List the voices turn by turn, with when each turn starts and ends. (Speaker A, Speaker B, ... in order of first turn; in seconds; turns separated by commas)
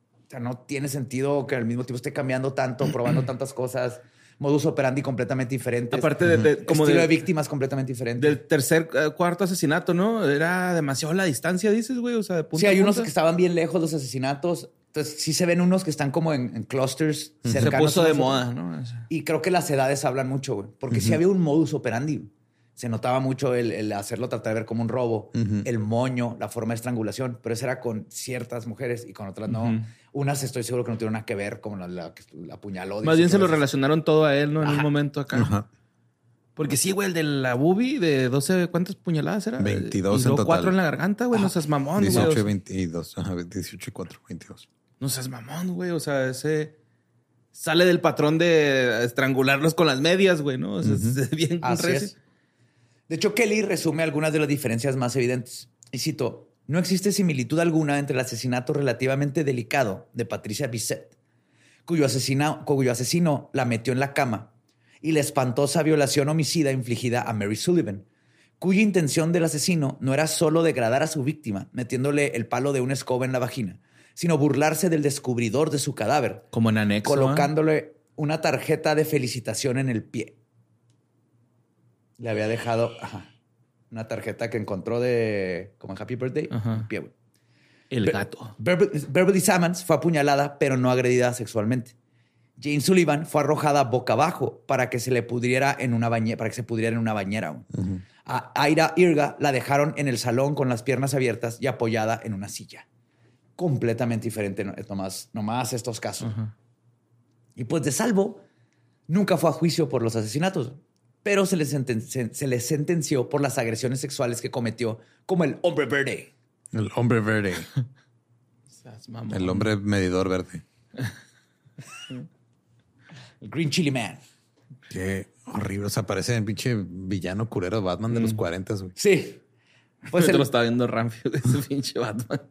Speaker A: 0.3-8.4, Speaker B: 5.9-7.2, Speaker B: 8.2-13.1, Speaker A: 12.6-18.5, Speaker C: 17.4-17.7, Speaker B: 17.5-19.1, Speaker A: 19.1-33.6, Speaker C: 20.9-21.2, Speaker C: 25.3-25.6, Speaker B: 29.5-29.8, Speaker B: 33.0-35.5, Speaker A: 34.6-34.9, Speaker C: 35.3-35.7, Speaker B: 36.5-42.5, Speaker C: 39.6-40.8, Speaker C: 42.0-44.7, Speaker B: 45.0-46.7, Speaker B: 47.5-52.1, Speaker C: 50.8-51.2, Speaker A: 51.6-52.1, Speaker A: 53.1-61.1, Speaker A: 61.9-64.5, Speaker A: 65.0-68.0, Speaker A: 68.6-76.4, Speaker B: 76.5-77.5, Speaker A: 77.0-80.3, Speaker A: 82.2-83.3, Speaker A: 83.9-87.1, Speaker B: 86.5-86.8, Speaker B: 87.9-88.5, Speaker A: 88.0-91.9, Speaker A: 92.6-97.7, Speaker C: 97.8-98.0, Speaker A: 98.2-102.8, Speaker A: 103.6-106.3, Speaker B: 106.2-106.5, Speaker A: 107.5-108.4, Speaker A: 109.1-116.3, Speaker C: 116.7-117.7, Speaker B: 118.7-119.7, Speaker C: 119.3-120.6, Speaker A: 123.4-124.2, Speaker C: 124.9-128.9, Speaker B: 128.1-128.4, Speaker A: 129.0-129.4, Speaker B: 130.1-132.4, Speaker A: 130.1-130.4